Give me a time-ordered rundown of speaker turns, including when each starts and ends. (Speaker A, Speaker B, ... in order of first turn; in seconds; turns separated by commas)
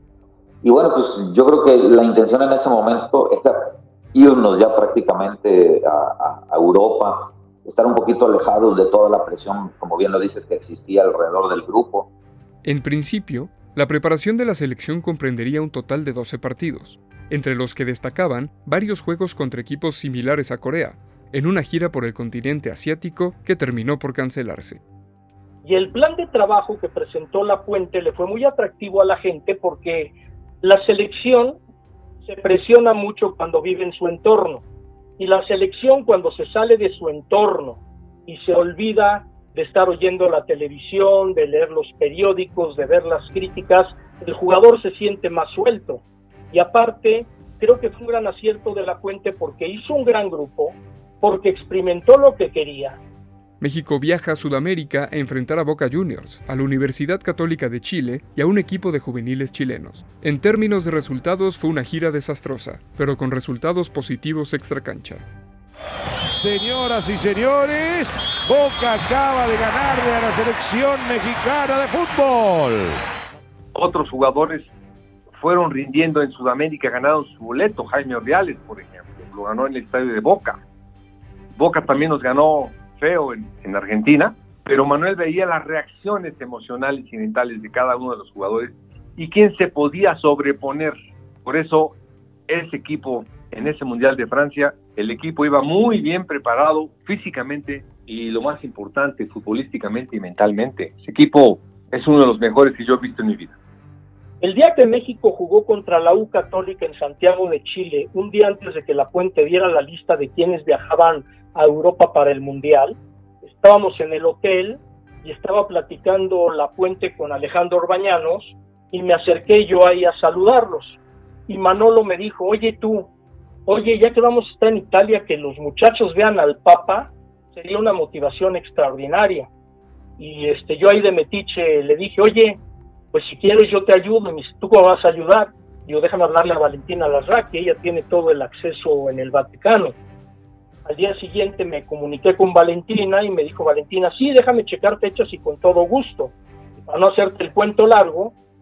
Speaker A: 0.6-12.1, Speaker B: 12.6-24.8, Speaker C: 25.6-31.6, Speaker C: 32.2-34.6, Speaker C: 35.2-53.0, Speaker B: 53.6-65.2, Speaker D: 66.3-73.0, Speaker E: 73.7-74.7, Speaker E: 75.3-80.6, Speaker E: 81.5-92.0, Speaker E: 92.5-103.5, Speaker C: 104.4-123.1, Speaker C: 123.7-129.5, Speaker C: 130.2-132.6, Speaker C: 133.1-139.9, Speaker C: 140.8-148.3